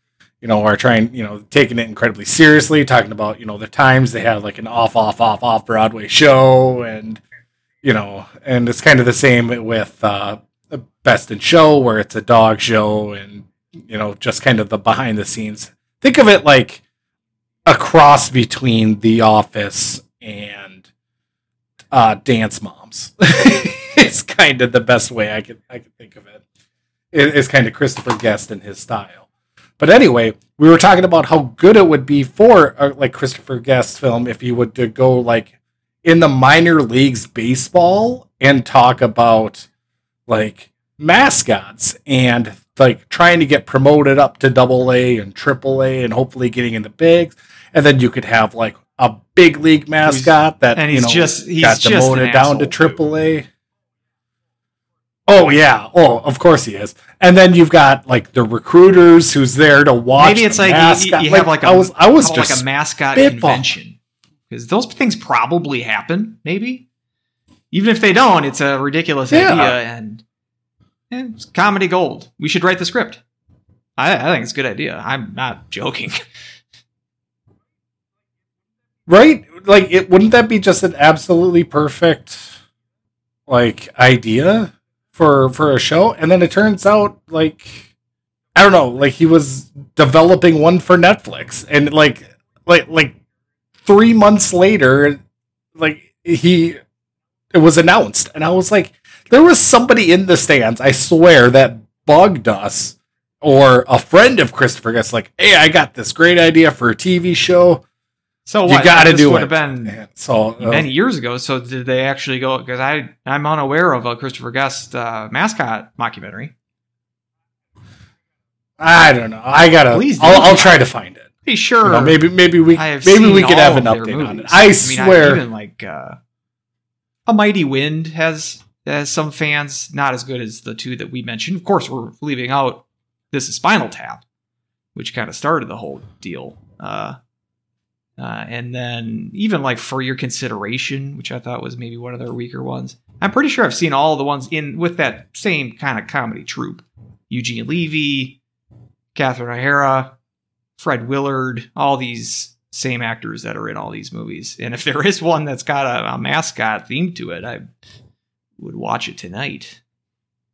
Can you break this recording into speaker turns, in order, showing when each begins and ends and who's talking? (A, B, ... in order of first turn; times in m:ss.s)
0:00.4-0:07.2 A
0:07.8-0:16.8 A
0:17.6-0:20.8 A
0:21.9-0:26.4 A
0:27.1-0:29.2 A
0:29.8-0:35.5 A
0:36.0-0:39.7 A
0:40.3-0:53.5 A
0:50.0-0:53.0 B
0:55.3-1:03.7 A
1:00.2-1:04.0 B
1:04.5-1:06.8 B
1:07.7-1:10.2 B
1:09.3-1:09.8 A
1:11.1-1:13.2 B
1:14.0-1:16.2 B
1:19.1-1:22.6 A
1:23.5-1:27.9 A
1:28.5-1:33.2 A
1:33.8-1:35.2 A
1:35.8-1:36.8 A
1:37.5-1:47.8 A
1:48.4-1:50.0 B
1:48.7-1:50.9 A
1:50.6-1:56.5 B
1:58.8-2:01.3 A
1:59.9-2:00.8 B
2:01.4-2:02.2 B
2:01.8-2:05.4 A
2:02.7-2:06.2 B
2:07.2-2:14.2 B
2:14.9-2:17.2 B
2:18.2-2:28.4 B
2:29.1-2:30.1 B
2:30.8-2:37.6 B
2:38.6-2:39.8 B